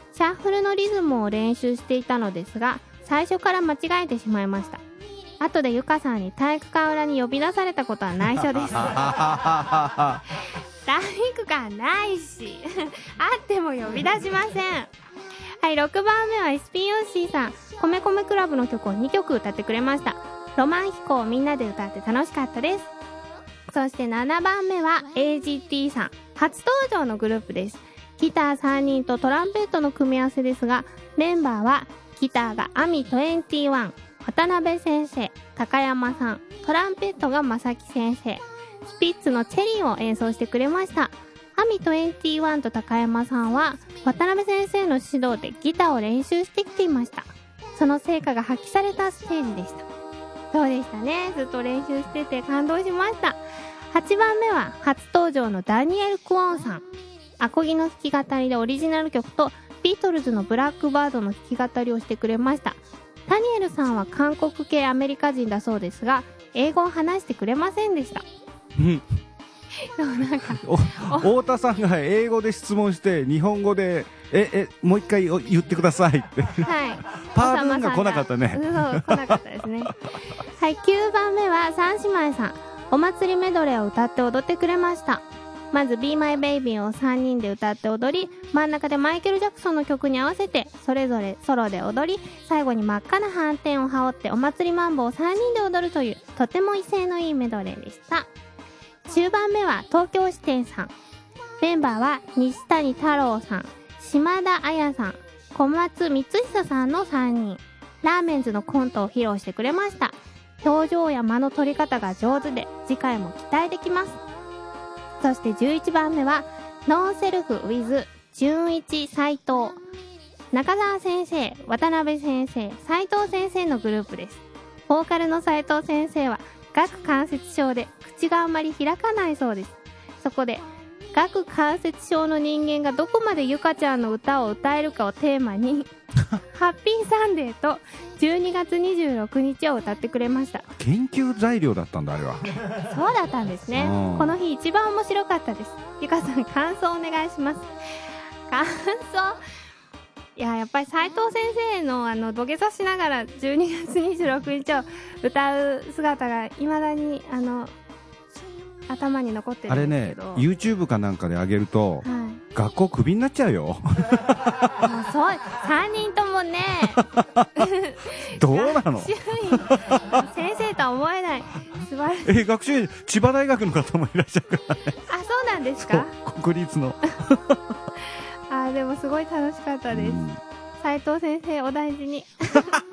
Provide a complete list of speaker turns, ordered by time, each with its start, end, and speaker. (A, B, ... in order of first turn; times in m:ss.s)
0:00.1-0:04.8 A
0:05.4-0:09.1 A
0:08.3-0:10.2 B
0:10.8-0:14.9 A
0:15.6-0:22.9 A
0:23.7-0:49.8 A
0:50.5-0:53.4 A
0:53.9-0:56.8 A
0:57.4-1:08.2 A
1:08.8-1:09.0 B
1:09.8-1:11.3 A
1:10.6-1:19.9 B
1:16.6-1:19.9 A
1:20.6-1:38.3 A
1:39.1-1:40.9 A
1:41.6-1:54.2 A
1:55.2-1:59.8 A
2:00.5-2:15.9 A
2:16.5-2:20.7 A
2:20.7-2:22.6 B
2:22.8-2:27.7 A
2:23.8-2:24.4 B
2:28.5-2:29.4 A
2:30.4-2:37.7 A
2:38.9-2:40.4 A
2:39.7-2:44.6 B
2:42.0-2:42.4 A
2:44.8-2:47.0 A
2:47.0-2:47.5 B
2:47.6-2:52.4 A
2:48.3-2:50.2 B
2:52.2-2:55.0 B
2:55.1-2:56.1 A
2:55.8-2:57.8 B
2:58.5-3:00.2 A
2:59.9-3:00.4 B
3:00.8-3:02.8 A